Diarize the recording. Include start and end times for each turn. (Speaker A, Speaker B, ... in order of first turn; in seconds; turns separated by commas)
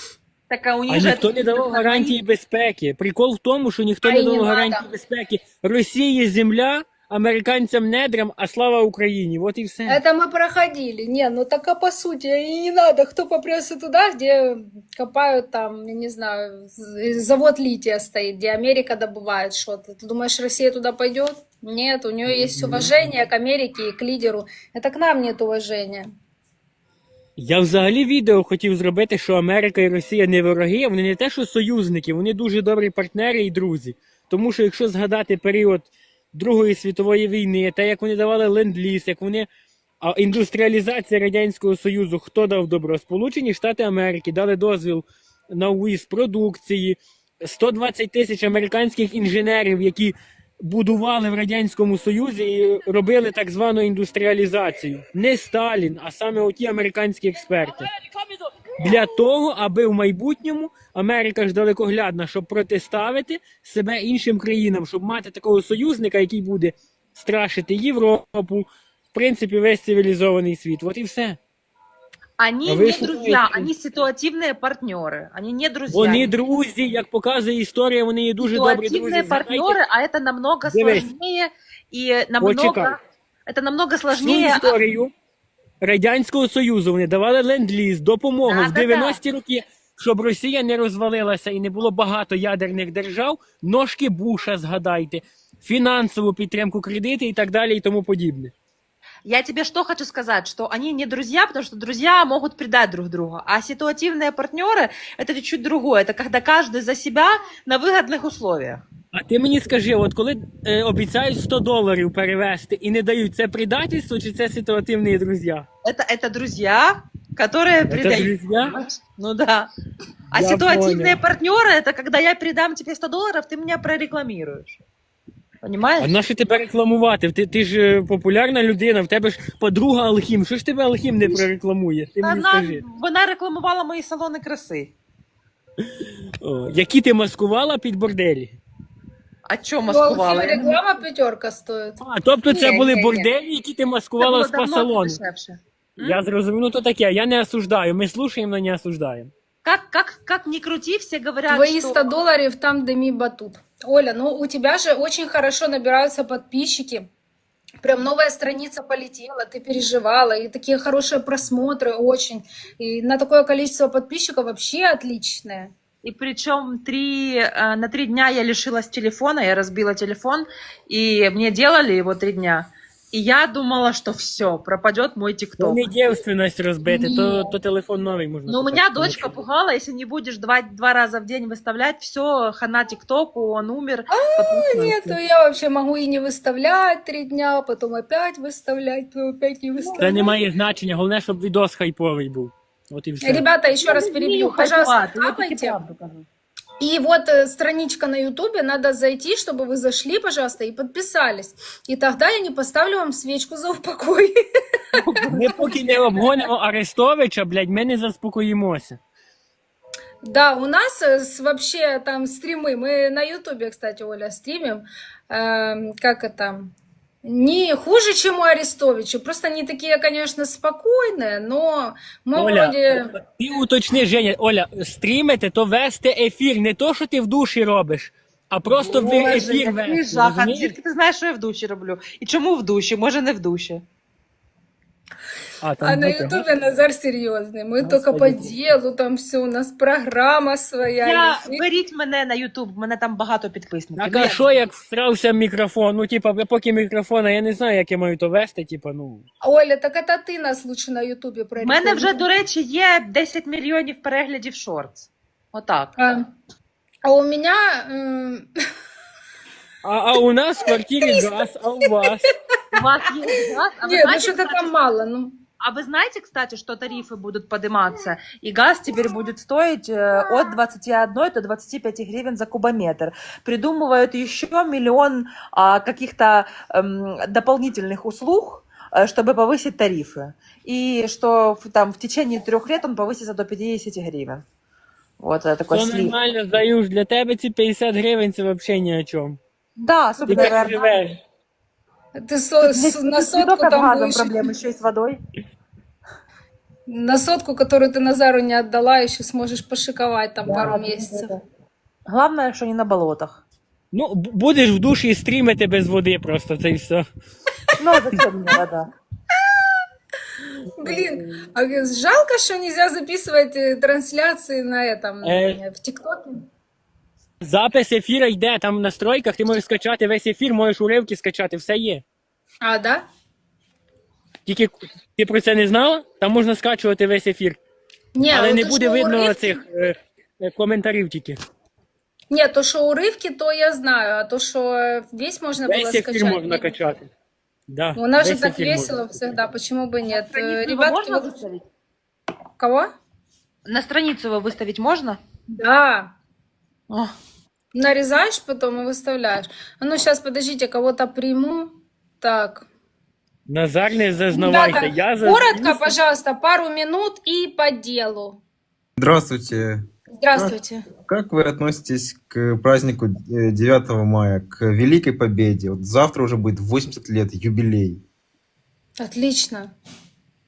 Speaker A: 0.5-2.2, Speaker B: 0.9-10.0, Speaker C: 4.0-4.9, Speaker C: 9.9-26.1, Speaker B: 27.4-39.5, Speaker B: 40.0-57.9, Speaker B: 58.8-71.4, Speaker A: 72.4-76.3, Speaker B: 72.7-73.7, Speaker B: 75.9-79.8, Speaker A: 78.4-84.8, Speaker B: 80.7-81.1, Speaker B: 82.4-82.9, Speaker B: 84.2-85.1, Speaker B: 85.8-98.5, Speaker A: 88.5-89.2, Speaker A: 99.2-108.8, Speaker B: 109.1-115.7, Speaker A: 115.8-119.7, Speaker B: 117.9-118.7, Speaker A: 120.3-124.8, Speaker B: 120.3-121.2, Speaker A: 125.6-126.2, Speaker B: 126.0-132.8, Speaker A: 132.2-134.9, Speaker B: 136.4-138.6, Speaker A: 139.5-140.8, Speaker C: 139.9-142.0, Speaker B: 142.0-145.2, Speaker A: 142.5-143.1, Speaker C: 142.7-143.0, Speaker A: 144.2-146.2, Speaker B: 146.0-149.3, Speaker A: 149.6-152.1, Speaker C: 151.5-157.1, Speaker C: 157.8-165.7, Speaker A: 166.0-175.9, Speaker B: 175.6-179.3, Speaker C: 176.9-177.5, Speaker A: 178.5-185.2, Speaker C: 184.1-190.3, Speaker A: 189.8-190.2, Speaker B: 190.0-193.4, Speaker C: 193.2-195.8, Speaker A: 193.8-196.3, Speaker C: 196.8-204.3, Speaker A: 204.9-205.7, Speaker B: 205.3-209.0, Speaker C: 210.2-223.1, Speaker B: 222.3-230.8, Speaker A: 228.8-233.8, Speaker B: 235.6-236.5, Speaker C: 235.8-241.7, Speaker B: 237.8-238.6, Speaker A: 241.0-244.4, Speaker B: 244.0-249.2, Speaker C: 249.4-252.3, Speaker A: 251.6-256.0, Speaker C: 256.0-256.3, Speaker C: 257.1-258.5, Speaker B: 259.8-262.3, Speaker C: 261.0-261.3, Speaker A: 262.7-264.7, Speaker C: 263.9-265.4, Speaker A: 265.6-284.4, Speaker A: 285.2-286.1, Speaker B: 285.7-289.4, Speaker A: 289.8-291.0, Speaker B: 290.2-291.2, Speaker C: 292.2-294.4, Speaker A: 292.6-295.2, Speaker C: 296.9-301.3, Speaker A: 300.5-301.4, Speaker A: 302.1-303.4, Speaker B: 303.9-307.1, Speaker A: 307.8-308.9, Speaker C: 310.8-316.4, Speaker A: 310.8-311.3, Speaker B: 315.2-315.6, Speaker B: 317.4-322.0, Speaker C: 322.6-323.0, Speaker B: 324.5-327.6, Speaker C: 328.1-329.6, Speaker B: 328.2-331.4, Speaker C: 332.3-336.7, Speaker B: 335.7-337.1, Speaker B: 337.7-338.9, Speaker C: 338.0-341.4, Speaker A: 340.0-341.6, Speaker C: 342.6-342.9, Speaker A: 343.7-345.2, Speaker C: 345.6-346.1, Speaker C: 347.7-352.7, Speaker B: 353.5-356.0, Speaker C: 354.3-358.4, Speaker D: 359.0-360.6, Speaker C: 360.1-360.8, Speaker D: 361.1-368.0, Speaker C: 369.0-369.7